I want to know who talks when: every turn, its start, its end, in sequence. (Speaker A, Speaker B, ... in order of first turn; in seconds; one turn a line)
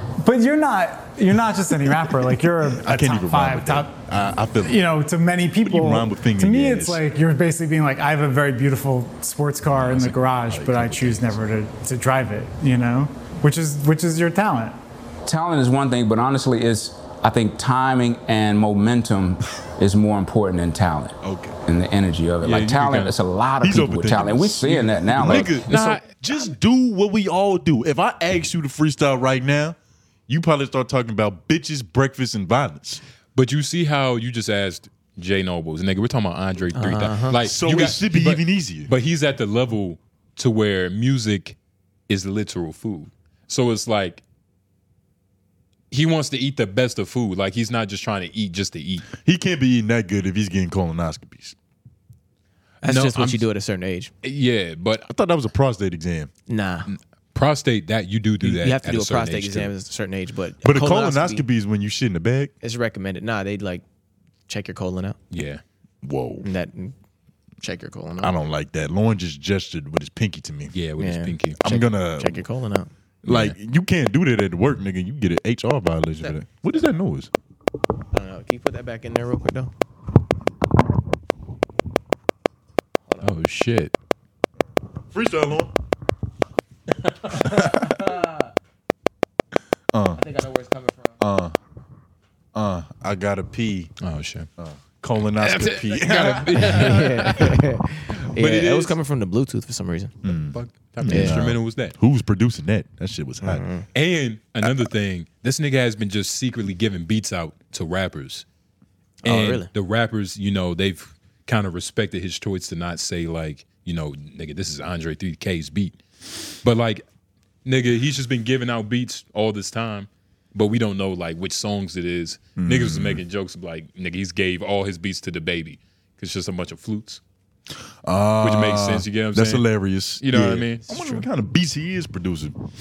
Speaker A: 0.2-3.9
Speaker B: 2.8-4.8
Speaker A: 4.6-14.8
Speaker B: 5.6-7.0
Speaker B: 9.7-11.4
Speaker C: 15.2-25.6
Speaker B: 21.2-21.6
Speaker D: 22.4-23.1
Speaker B: 23.6-29.8
Speaker D: 25.2-26.4
Speaker B: 30.3-33.0
Speaker D: 33.3-41.5
Speaker E: 36.7-37.4
Speaker B: 37.4-38.9
Speaker D: 42.1-44.2
Speaker D: 45.9-49.1
Speaker B: 49.2-51.5
Speaker E: 52.8-54.1
Speaker D: 52.8-53.4
Speaker D: 54.2-55.1
Speaker B: 55.1-56.3
Speaker E: 56.5-56.9
Speaker D: 56.9-59.7
Speaker E: 58.4-61.4
Speaker B: 60.6-62.5
Speaker E: 62.6-63.8
Speaker E: 64.5-65.2
Speaker D: 65.3-65.6
Speaker B: 66.0-66.5
Speaker E: 66.4-67.0
Speaker E: 67.6-68.3
Speaker B: 68.2-70.7
Speaker D: 70.7-71.6
Speaker E: 71.0-72.9
Speaker B: 71.6-72.3
Speaker B: 73.2-77.3
Speaker D: 73.3-73.5
Speaker E: 78.1-79.7
Speaker D: 83.2-83.9
Speaker B: 85.1-85.7
Speaker E: 87.3-88.3
Speaker B: 87.4-87.9
Speaker B: 89.9-90.2
Speaker E: 90.2-91.2
Speaker B: 91.2-91.5
Speaker B: 92.5-93.9
Speaker D: 94.0-94.5
Speaker B: 94.6-96.7
Speaker D: 95.4-97.6
Speaker E: 96.3-100.2
Speaker D: 98.2-98.9
Speaker B: 100.2-103.6
Speaker D: 100.5-101.9
Speaker E: 101.1-101.4
Speaker E: 103.4-103.9
Speaker D: 103.9-108.4
Speaker E: 109.2-109.7
Speaker D: 109.2-116.0
Speaker D: 116.6-117.0
Speaker D: 117.6-127.2
Speaker B: 122.6-123.2
Speaker B: 128.0-132.6
Speaker D: 128.4-129.7
Speaker D: 130.2-130.8
Speaker E: 130.9-131.2